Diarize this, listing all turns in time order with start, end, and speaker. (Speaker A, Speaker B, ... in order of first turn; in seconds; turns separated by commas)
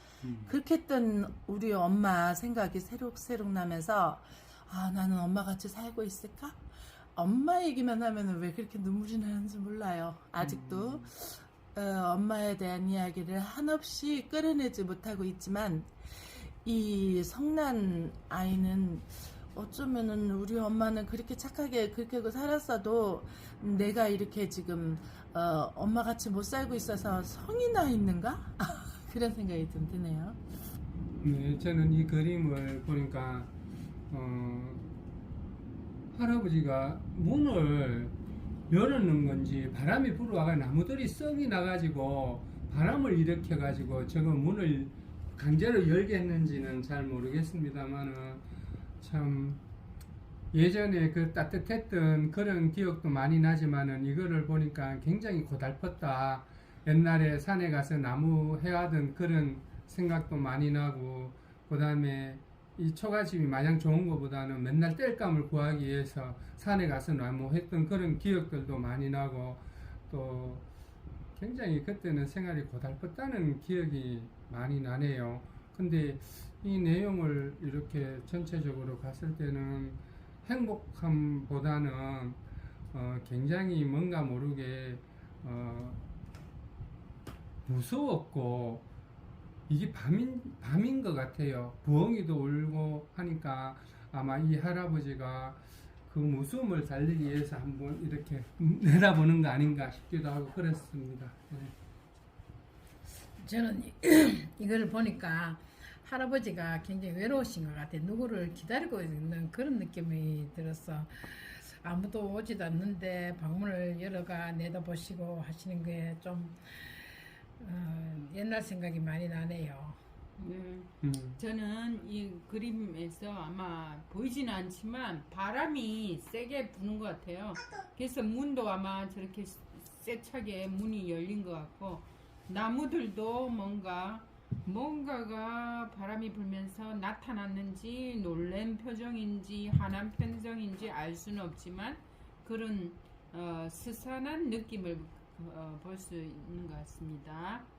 Speaker A: 0.2-0.5, Speaker B: 0.5-6.6, Speaker B: 7.2-30.4, Speaker A: 10.4-11.1, Speaker A: 31.2-33.5, Speaker A: 34.1-34.9, Speaker A: 36.1-38.1, Speaker A: 38.7-48.4, Speaker A: 49.0-49.6, Speaker A: 50.5-70.6, Speaker A: 71.3-82.4, Speaker A: 82.9-86.0, Speaker A: 87.7-88.8, Speaker A: 89.7-101.7, Speaker C: 103.4-117.0, Speaker C: 117.6-120.0, Speaker D: 120.4-147.7, Speaker A: 121.0-121.4